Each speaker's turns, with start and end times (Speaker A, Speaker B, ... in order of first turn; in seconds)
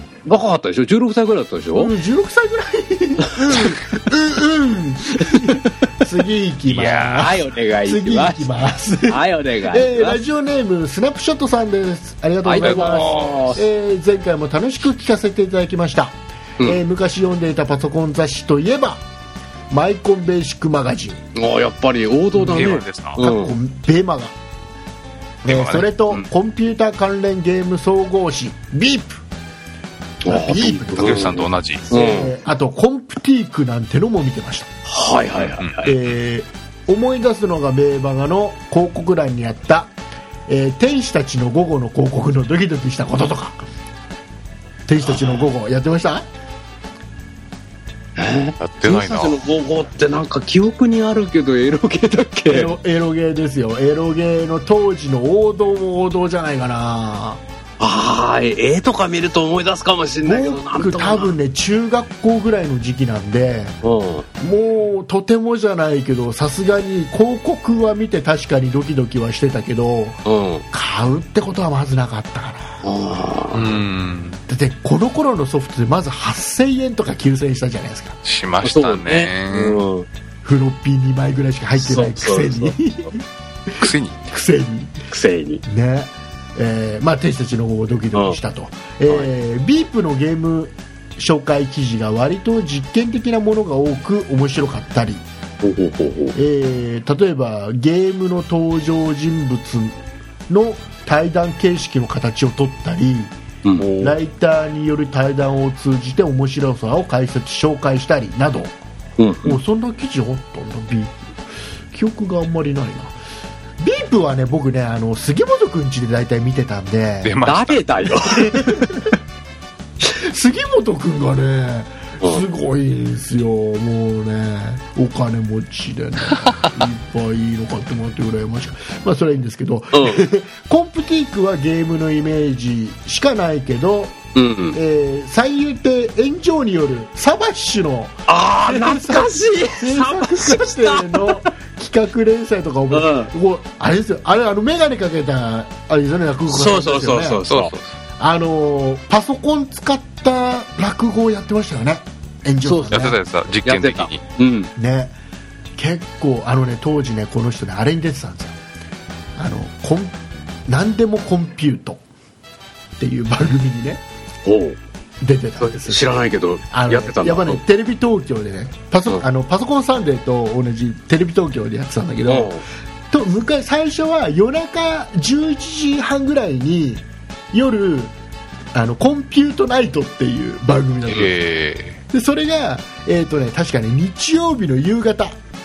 Speaker A: 0.3-1.9, 5.2-5.7, 6.7-8.5, 9.1-10.2, 12.4-13.6, 21.4-23.6, 30.2-32.3, 34.9-35.9, 45.0-45.5, 48.2-52.7, 57.8-61.4, 63.8-64.3, 70.3-70.6, 72.8-73.8, 78.6-80.1, 81.8-82.8, 85.1-85.6, 95.6-96.4, 103.7-104.1, 109.2-109.6, 117.5-118.6, 129.9-130.2, 134.3-134.8, 138.3-141.5, 142.9-143.3, 146.5-147.7, 152.6-153.1, 153.7-154.7, 164.4-164.8, 165.6-167.6, 172.3-172.6
Speaker B: 1.8-19.1, 19.7-21.2, 22.4-24.4, 25.4-29.2, 30.3-34.7, 35.8-39.9, 40.5-43.6, 44.9-46.3, 52.5-57.4, 60.2-63.8, 64.4-72.8, 74.5-78.2, 80.4-85.0, 85.7-95.2, 96.3-100.0, 100.5-103.4, 103.9-108.8, 109.5-111.2, 111.9-113.2, 113.8-117.4, 118.3-119.1, 120.1-134.2, 134.7-147.4, 148.2-153.2, 154.8-155.2, 155.8-158.6, 159.4-162.0, 163.0-164.0, 165.2-166.2, 166.7-178.1, 178.7-181.3, 182.1-185.4
Speaker C: 6.7-7.1, 12.6-13.6, 22.5-23.2, 25.5-25.9, 31.0-31.9, 35.5-35.9, 48.6-49.4, 73.5-74.4, 78.2-79.8, 83.8-84.2, 117.2-117.8, 147.5-147.9, 152.9-154.2, 181.1-182.0